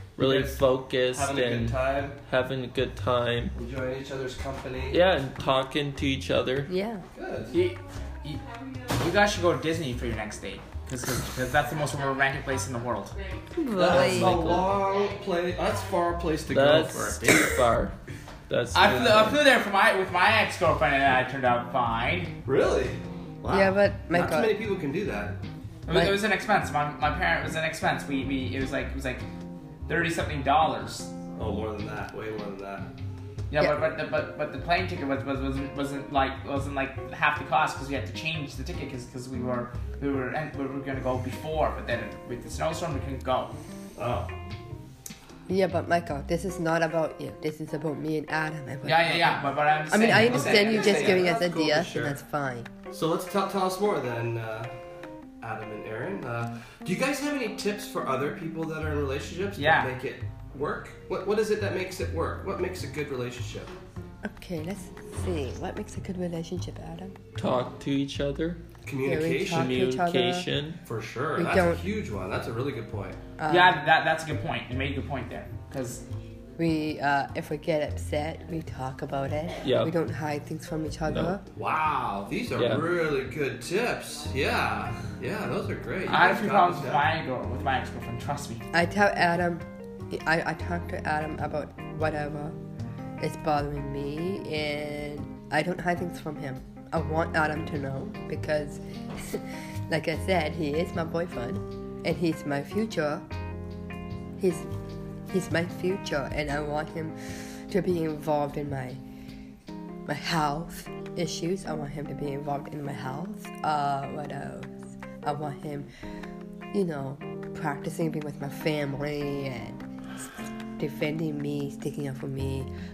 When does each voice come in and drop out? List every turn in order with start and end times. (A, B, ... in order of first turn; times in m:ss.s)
0:00.2-0:03.6 A
0:00.2-0:00.6 B
0:01.1-0:02.2 B
0:03.6-0:05.0 B
0:04.9-0:06.7 A
0:06.7-0:07.0 C
0:07.1-0:07.5 B
0:07.5-0:13.2 D
0:13.5-0:14.7 C
0:13.8-0:17.6 B
0:13.9-0:14.6 A
0:16.5-0:18.0 A
0:18.5-0:19.4 A
0:18.7-0:22.3 D
0:18.8-0:19.3 B
0:22.4-0:25.4 B
0:23.5-0:24.6 C
0:25.9-0:29.2 D
0:25.9-0:26.2 C
0:29.9-0:31.1 D
0:31.4-0:32.9 B
0:33.5-0:43.5 D
0:44.0-0:44.3 B
0:45.5-0:52.7 C
0:48.8-0:51.3 D
0:50.0-0:52.2 B
0:52.9-0:54.7 B
0:55.4-1:03.7 B
0:59.6-0:59.9 D
1:04.2-1:07.2 C
1:07.4-1:08.6 A
1:08.8-1:09.8 B
1:09.0-1:10.5 C
1:09.5-1:10.8 A
1:10.8-1:13.2 B
1:11.4-1:11.8 C
1:13.4-1:13.8 C
1:13.5-1:16.0 D
1:16.6-1:21.4 C
1:19.6-1:19.9 A
1:21.1-1:21.4 A
1:21.6-1:27.1 B
1:22.6-1:22.9 A
1:26.1-1:28.6 D
1:28.7-1:32.6 C
1:33.2-1:43.3 C
1:44.4-1:44.7 C
1:45.3-1:49.0 C
1:50.1-1:55.9 C
1:56.7-2:02.7 C